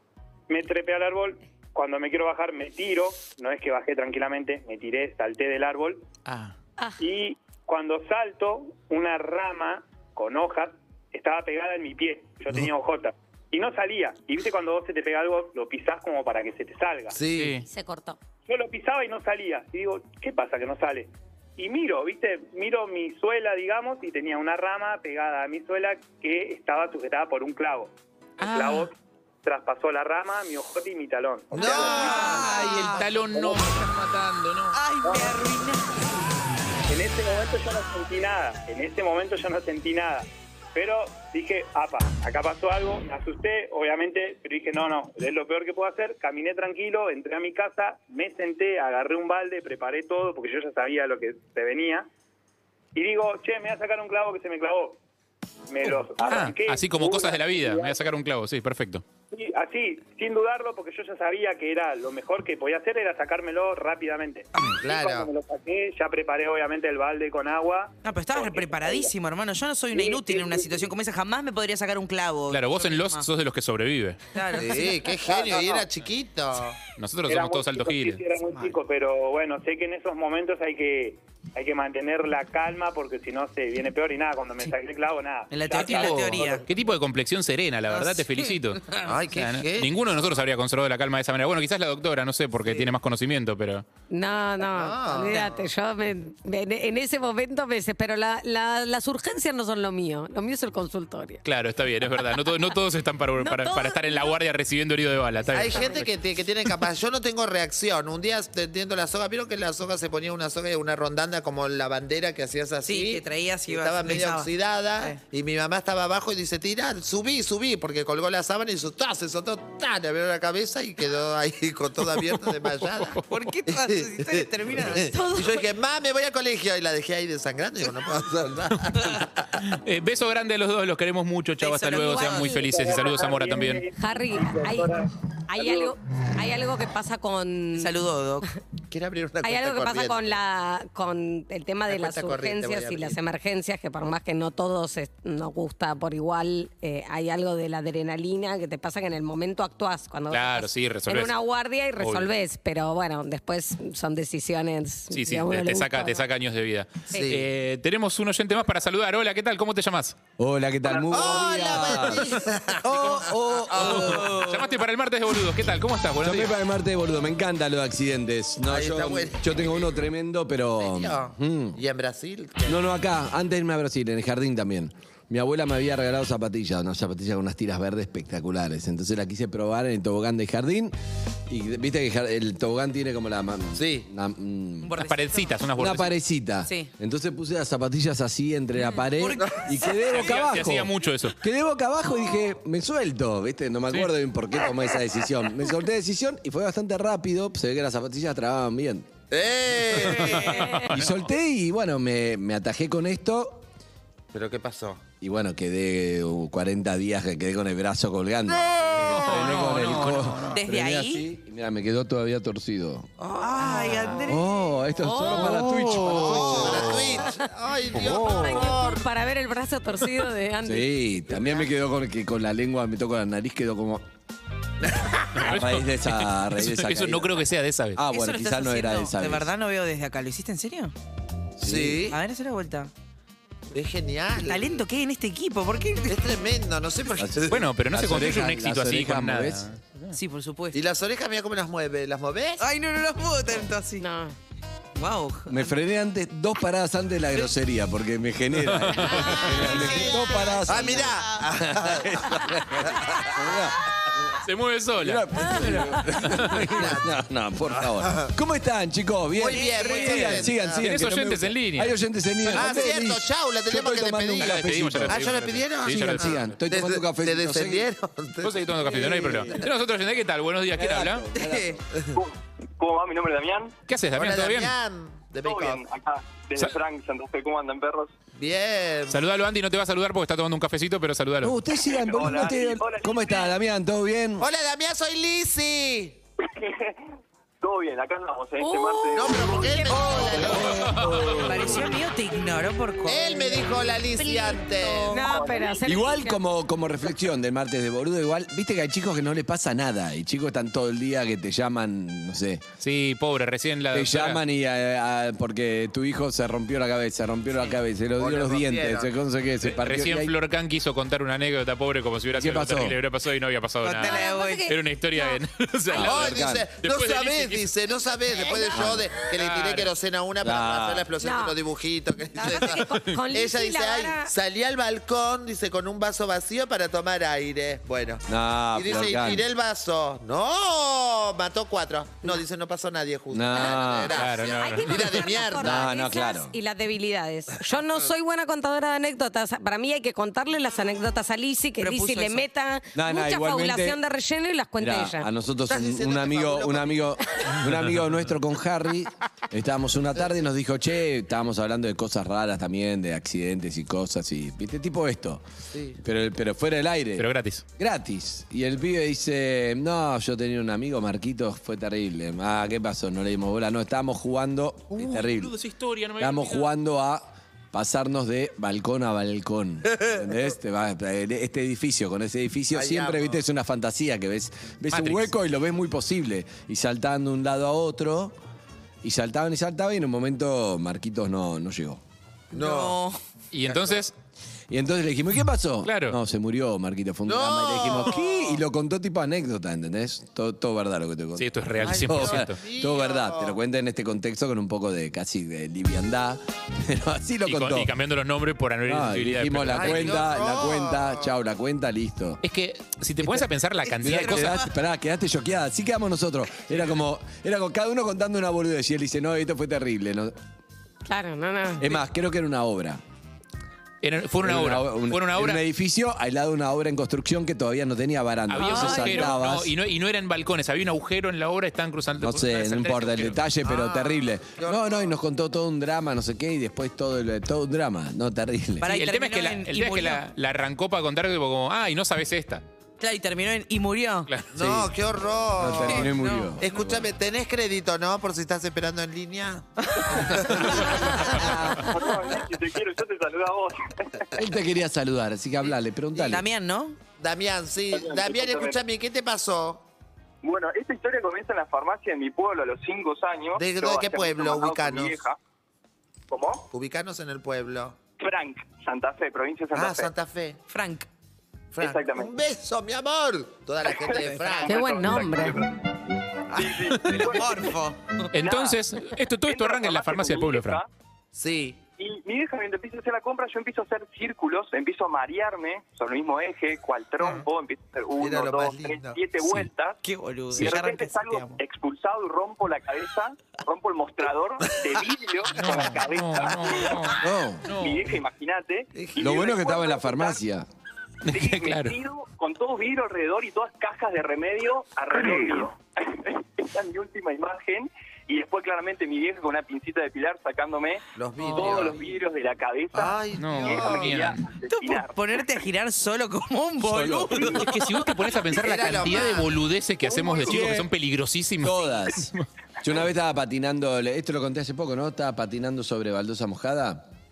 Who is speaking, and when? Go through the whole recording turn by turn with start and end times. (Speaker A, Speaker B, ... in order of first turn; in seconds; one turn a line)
Speaker A: 0.5-6.0
Speaker A: 7.0-17.2
Speaker B: 17.1-17.6
Speaker C: 17.3-17.6
Speaker D: 17.6-18.2
Speaker A: 18.5-33.7
Speaker C: 28.4-28.9
Speaker B: 31.5-32.5
Speaker E: 31.7-33.0
Speaker C: 31.8-34.8
Speaker E: 34.7-35.9
Speaker A: 35.0-35.4
Speaker A: 36.9-52.1
Speaker A: 52.9-55.0
Speaker A: 55.7-58.1
Speaker C: 56.2-59.0
Speaker A: 59.3-69.1
Speaker B: 64.8-65.3
Speaker E: 68.0-73.2
Speaker A: 69.9-70.8
Speaker C: 72.5-74.2
Speaker E: 74.3-74.9
Speaker B: 74.6-76.8
Speaker A: 75.2-75.8
Speaker C: 77.0-78.2
Speaker A: 77.2-86.6
Speaker E: 78.5-78.8
Speaker E: 85.5-86.6
Speaker C: 85.8-93.8
Speaker E: 87.9-89.1
Speaker B: 89.0-89.9
Speaker D: 94.1-101.4
Speaker B: 94.6-95.7
Speaker C: 101.4-105.9
Speaker D: 102.4-102.8
Speaker D: 103.4-104.4
Speaker B: 105.5-129.6
Speaker E: 112.8-115.2
Speaker E: 123.3-125.5
Speaker C: 129.6-133.9
Speaker E: 131.6-132.6
Speaker D: 132.3-132.6
Speaker A: 132.7-135.9
Speaker D: 133.9-137.9
Speaker E: 137.8-138.4
Speaker B: 138.9-140.4
Speaker D: 139.4-156.2
Speaker B: 141.9-143.2
Speaker C: 150.3-151.3
Speaker C: 152.0-152.3
Speaker C: 155.1-160.2
Speaker B: 157.1-157.4
Speaker F: 160.4-164.5
Speaker G: 160.9-161.5
Speaker B: 161.1-164.3
Speaker C: 162.8-166.5
Speaker E: 164.1-164.7
Speaker F: 166.2-171.8
Speaker B: 168.6-169.9
Speaker B: 170.8-172.8
Speaker F: 172.7-180.9
Speaker F: 181.5-184.9
Speaker B: 183.8-184.1
Speaker E: 184.8-185.6
Speaker C: 185.0-186.1
Speaker F: 185.8-199.1
Speaker E: 189.2-190.6
Speaker B: 189.4-189.7
Speaker C: 190.1-191.3
Speaker B: 199.3-200.6
Speaker C: 200.0-201.3
Speaker E: 200.2-200.8
Speaker F: 200.9-203.7
Speaker B: 204.3-205.0
Speaker F: 205.2-213.1
Speaker B: 208.5-209.4
Speaker C: 209.1-210.6
Speaker E: 210.5-211.2
Speaker B: 213.2-214.2
Speaker E: 213.4-214.5
Speaker F: 214.2-217.2
Speaker D: 215.0-215.6
Speaker C: 215.2-217.2
Speaker B: 216.0-219.0
Speaker C: 217.9-218.2
Speaker D: 218.0-220.9
Speaker F: 220.6-224.1
Speaker B: 221.3-221.7
Speaker B: 224.8-225.4
Speaker C: 225.3-228.0
Speaker F: 225.4-227.4
Speaker F: 227.9-229.5
Speaker E: 228.1-230.9
Speaker F: 231.6-232.1
Speaker B: 231.6-232.2
Speaker E: 232.1-232.9
Speaker B: 233.7-234.8
Speaker E: 234.4-236.2
Speaker B: 236.1-237.7
Speaker F: 237.2-239.7
Speaker C: 237.5-240.2
Speaker E: 240.1-240.8
Speaker B: 240.7-242.7
Speaker E: 242.6-244.0
Speaker D: 244.0-244.3
Speaker E: 244.9-245.7
Speaker F: 245.5-253.8
Speaker C: 248.6-249.6
Speaker B: 249.2-253.4
Speaker E: 249.6-251.4
Speaker C: 254.4-256.6
Speaker F: 255.0-267.9
Speaker B: 256.7-257.1
Speaker B: 257.7-258.3
Speaker B: 259.4-260.9
Speaker E: 259.5-260.5
Speaker C: 260.8-262.8
Speaker B: 262.5-269.2
Speaker C: 264.4-266.6
Speaker C: 268.4-271.2
Speaker F: 268.8-269.7
Speaker F: 270.7-271.8
Speaker E: 271.4-271.8
Speaker G: 272.1-273.7
Speaker C: 273.9-274.7
Speaker B: 274.1-275.8
Speaker G: 275.4-278.1
Speaker B: 278.4-279.2
Speaker C: 279.1-281.6
Speaker F: 281.4-284.5
Speaker G: 281.9-283.5
Speaker B: 284.4-286.2
Speaker G: 286.5-287.0
Speaker G: 287.6-289.4
Speaker D: 288.6-290.5
Speaker B: 289.1-291.4
Speaker F: 290.5-291.4
Speaker C: 290.8-291.5
Speaker E: 291.4-293.6
Speaker B: 293.1-295.3
Speaker D: 294.1-296.4
Speaker G: 295.3-295.7
Speaker F: 295.8-302.6
Speaker C: 302.8-304.4
Speaker F: 303.9-310.3
Speaker B: 308.2-309.1
Speaker C: 309.7-317.7
Speaker F: 312.3-313.0
Speaker E: 313.8-314.7
Speaker D: 314.0-315.4
Speaker B: 315.9-336.0
Speaker F: 315.9-316.7
Speaker F: 318.7-319.1
Speaker C: 319.2-319.9
Speaker F: 320.4-321.1
Speaker D: 321.2-321.6
Speaker D: 322.3-324.3
Speaker F: 328.3-329.4
Speaker F: 333.3-334.2
Speaker C: 334.1-335.2
Speaker D: 334.6-345.3
Speaker F: 335.6-336.5
Speaker E: 341.8-342.4
Speaker F: 342.9-344.0
Speaker F: 344.8-355.4
Speaker B: 345.7-346.9
Speaker B: 355.7-356.0
Speaker F: 356.0-357.3
Speaker C: 357.2-357.6
Speaker F: 357.8-365.5
Speaker C: 364.9-366.7
Speaker F: 366.2-378.4
Speaker B: 372.7-373.4
Speaker C: 374.9-375.3
Speaker F: 379.0-382.0
Speaker B: 382.5-383.0
Speaker E: 382.5-383.2
Speaker C: 383.5-384.1
Speaker B: 383.7-384.0
Speaker F: 384.7-397.9
Speaker C: 385.8-386.2
Speaker B: 387.2-388.6
Speaker C: 391.4-392.6
Speaker B: 391.8-393.6
Speaker C: 397.4-400.2
Speaker F: 398.9-402.4
Speaker B: 399.7-401.3
Speaker C: 402.4-404.6
Speaker E: 403.9-404.7
Speaker F: 404.0-410.3
Speaker D: 411.1-411.9
Speaker F: 411.8-413.0
Speaker C: 414.0-415.6
Speaker F: 414.4-419.7
Speaker C: 418.5-423.4
Speaker D: 418.6-419.4
Speaker F: 422.2-428.9
Speaker B: 423.6-425.1
Speaker E: 428.8-430.2
Speaker C: 428.9-432.6
Speaker E: 433.0-434.3
Speaker B: 434.5-441.2
Speaker F: 434.5-434.9
Speaker F: 435.6-437.1
Speaker E: 435.7-436.6
Speaker E: 439.8-441.9
Speaker F: 440.3-441.5
Speaker G: 441.7-444.3
Speaker F: 444.3-446.4
Speaker B: 446.1-446.4
Speaker E: 446.2-447.0
Speaker B: 447.2-449.8
Speaker G: 447.9-448.8
Speaker G: 450.4-455.4
Speaker B: 453.6-455.2
Speaker G: 456.3-456.7
Speaker B: 456.7-457.9
Speaker G: 458.2-460.1
Speaker B: 459.7-460.6
Speaker E: 460.7-461.1
Speaker B: 461.7-464.8
Speaker G: 461.8-462.3
Speaker G: 464.1-465.7
Speaker E: 464.2-464.6
Speaker D: 464.6-465.6
Speaker E: 466.5-468.3
Speaker G: 466.5-467.7
Speaker C: 468.3-470.8
Speaker G: 468.4-468.8
Speaker G: 469.4-470.9
Speaker B: 471.3-471.8
Speaker G: 472.0-480.0
Speaker B: 478.2-479.2
Speaker E: 480.0-481.6
Speaker G: 480.5-487.1
Speaker C: 485.5-488.1
Speaker F: 487.2-487.7
Speaker G: 487.7-490.4
Speaker B: 488.9-489.4
Speaker F: 489.2-490.7
Speaker C: 491.2-491.9
Speaker G: 491.3-505.2
Speaker B: 501.1-502.1
Speaker B: 502.9-504.2
Speaker C: 503.4-504.4
Speaker E: 504.7-508.0
Speaker F: 506.9-507.5
Speaker C: 507.4-512.5
Speaker B: 508.5-509.5
Speaker G: 510.1-510.6
Speaker F: 510.4-510.9
Speaker F: 511.6-517.1